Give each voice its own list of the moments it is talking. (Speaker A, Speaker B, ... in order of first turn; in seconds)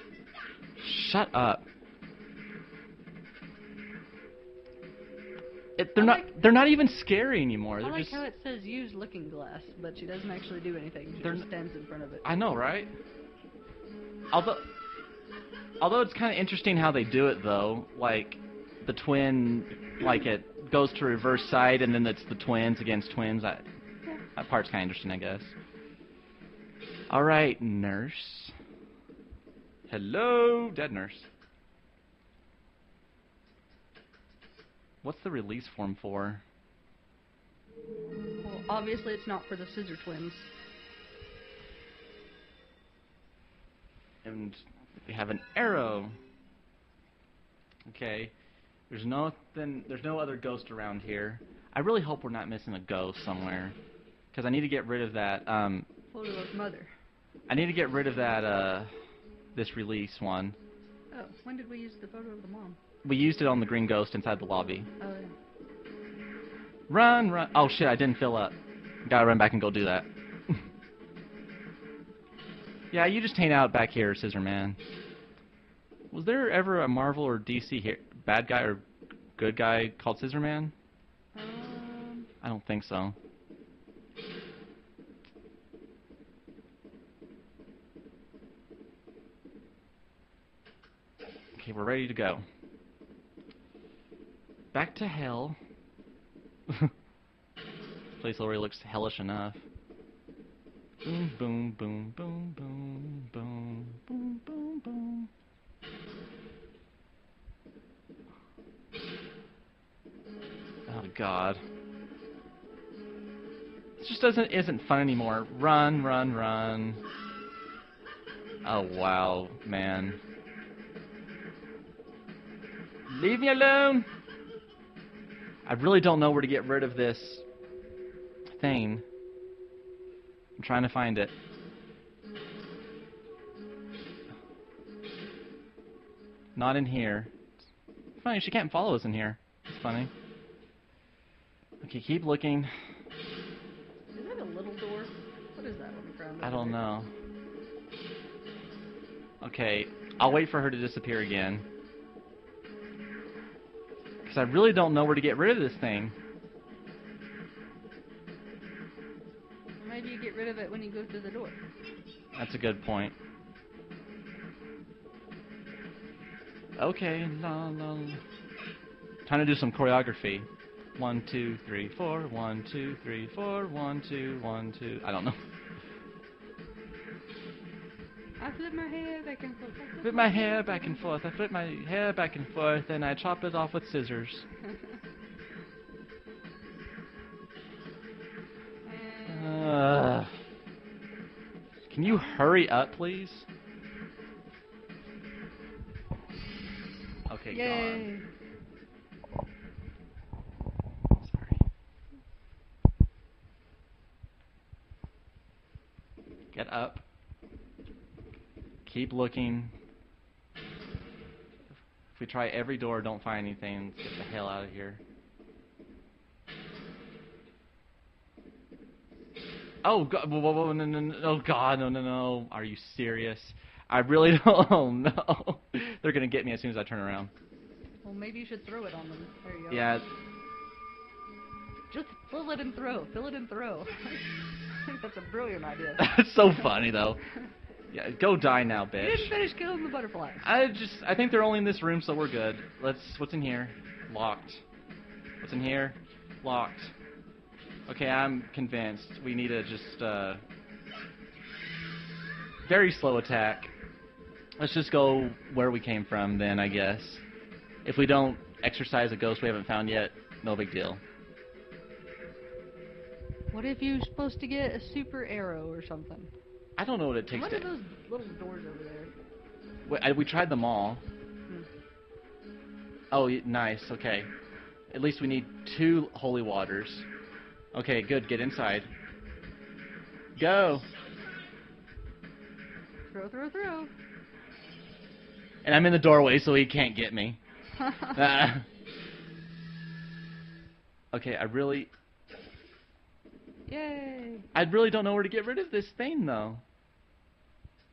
Speaker A: 0.8-1.7, 5.8-8.2, 11.2-11.5, 12.2-12.9, 14.3-14.7, 15.8-23.6, 24.4-25.6, 27.1-28.5, 29.9-31.3, 35.0-36.4, 44.2-46.2, 47.9-48.3, 48.9-53.8, 54.3-55.9, 57.5-58.9, 59.5-60.6, 63.0-64.9, 66.9-70.6, 72.9-74.8, 76.1-78.8, 79.4-80.7, 82.4-83.2, 91.6-92.4, 94.7-95.6, 98.1-99.6, 101.0-105.3, 110.9-111.6, 114.0-117.0, 118.6-120.2, 123.1-124.1, 125.7-127.5, 128.5-129.1, 130.6-131.3, 136.6-137.3, 138.2-140.1, 141.8-142.7, 146.4-147.1, 149.4-151.7, 154.2-156.2, 162.3-163.2, 166.8-168.2, 169.3-175.4, 180.0-184.4, 189.3-190.3, 191.9-193.5, 197.3-198.1, 201.2-201.6, 206.5-207.0, 208.8-209.7, 212.1-215.0, 219.8-227.3, 229.7-230.1, 236.0-237.2, 237.9-239.3, 240.4-244.6, 245.4-246.9, 247.9-250.4, 252.7-253.7, 254.6-257.2, 257.8-261.0, 266.8-267.7, 269.9-271.0, 273.1-274.3, 274.9-277.1, 277.7-278.9, 280.4-280.9, 285.6-287.4, 288.1-288.7, 291.1-291.9, 294.5-296.6
Speaker B: 6.0-6.3, 7.8-12.2, 38.4-40.5, 56.1-56.9, 61.1-62.8, 65.0-65.3, 81.3-82.3, 144.1-146.8, 159.8-161.6, 178.4-181.2, 188.8-189.9, 197.5-198.3, 228.0-229.9, 231.9-236.1, 239.0-240.4, 263.5-266.3, 267.3-269.1, 283.1-283.9, 293.7-294.5